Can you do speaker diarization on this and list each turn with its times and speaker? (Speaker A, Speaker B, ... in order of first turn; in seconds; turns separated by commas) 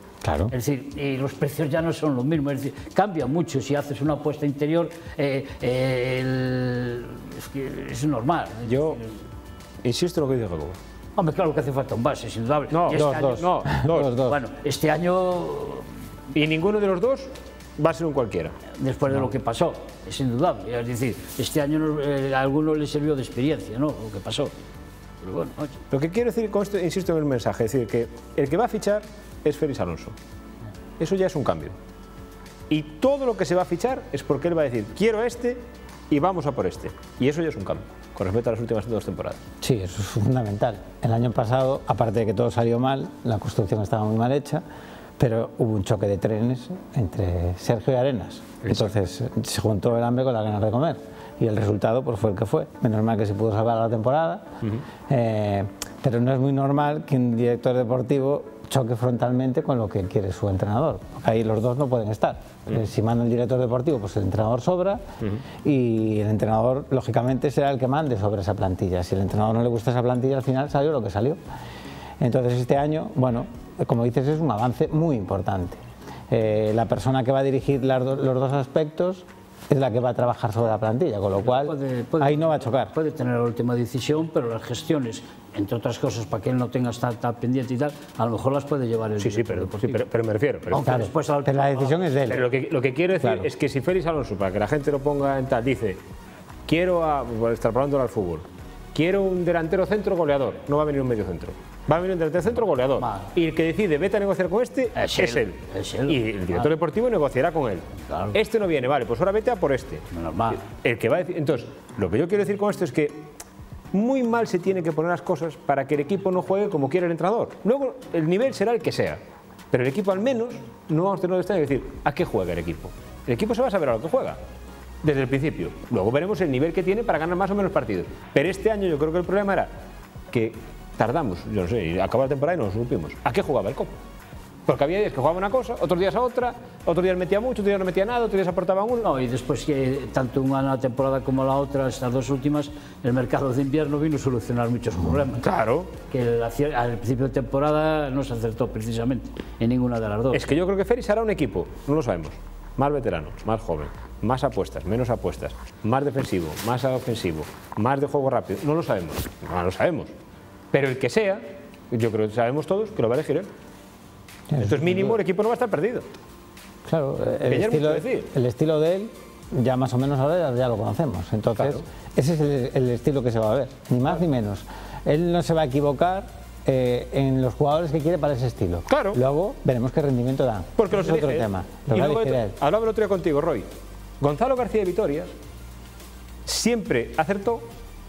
Speaker A: 0.2-0.5, Speaker B: 0.5-9.1, Speaker C: 8.7-9.0, Speaker C: 9.8-10.8, Speaker B: 11.2-15.9, Speaker C: 12.7-14.1, Speaker A: 12.9-14.4, Speaker C: 16.3-18.6, Speaker B: 18.8-24.5, Speaker B: 25.2-25.8, Speaker C: 25.9-30.1, Speaker C: 31.0-31.8, Speaker C: 32.7-39.4, Speaker A: 39.6-44.6, Speaker A: 45.2-65.0, Speaker C: 48.6-48.9, Speaker A: 65.6-71.4, Speaker A: 72.2-82.9, Speaker B: 81.4-90.0, Speaker C: 89.2-91.0, Speaker B: 90.7-92.4, Speaker A: 90.7-92.4, Speaker C: 92.3-96.0, Speaker A: 93.2-93.5, Speaker C: 96.7-110.0, Speaker B: 103.0-103.3, Speaker B: 105.0-106.7, Speaker B: 108.0-108.4, Speaker B: 110.1-110.6, Speaker C: 110.6-113.3, Speaker C: 113.9-124.4, Speaker C: 125.0-129.7, Speaker C: 130.3-134.0, Speaker C: 134.7-139.1, Speaker B: 139.0-145.5, Speaker C: 145.4-145.9, Speaker B: 146.1-150.4, Speaker C: 150.3-160.1, Speaker C: 160.7-163.5, Speaker A: 164.5-165.2, Speaker C: 164.6-166.1, Speaker A: 166.8-182.6, Speaker C: 167.5-168.3, Speaker C: 171.6-171.8, Speaker C: 178.9-179.2, Speaker C: 180.8-183.7, Speaker C: 184.2-185.3, Speaker C: 186.5-187.7